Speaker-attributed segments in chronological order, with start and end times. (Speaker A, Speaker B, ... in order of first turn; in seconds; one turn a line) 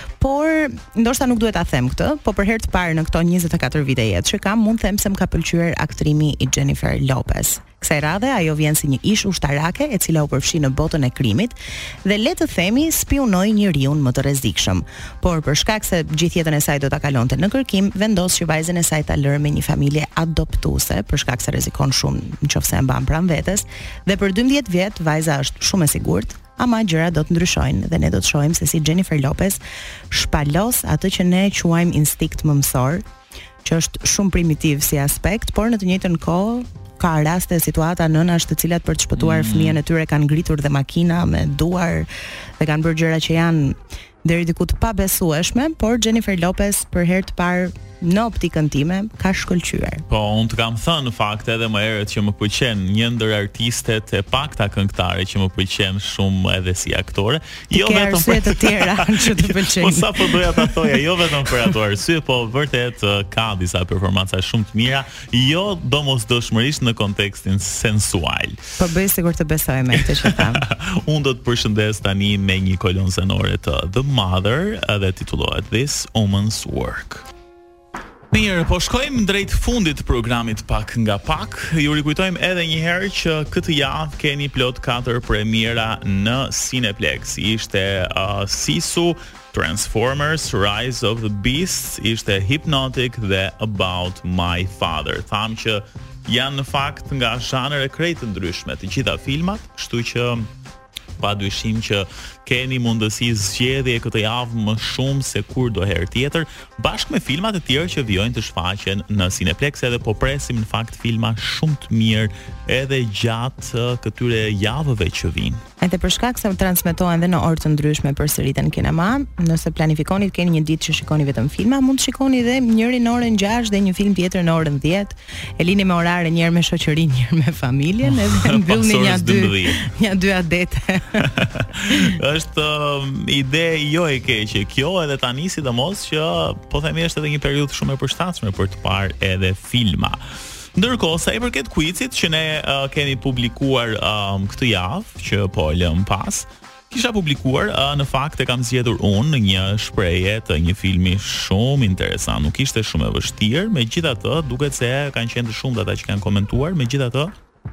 Speaker A: 0.2-29.6
Speaker A: 30.1-33.0
Speaker A: 33.6-42.1
Speaker B: 39.1-39.8
Speaker A: 42.6-50.0
Speaker B: 50.1-68.6
Speaker A: 57.7-60.7
Speaker A: 68.8-70.7
Speaker B: 70.3-77.3
Speaker B: 78.3-100.5
Speaker B: 101.2-115.6
Speaker A: 115.8-131.3
Speaker B: 128.0-129.8
Speaker B: 131.4-140.2
Speaker B: 140.8-157.3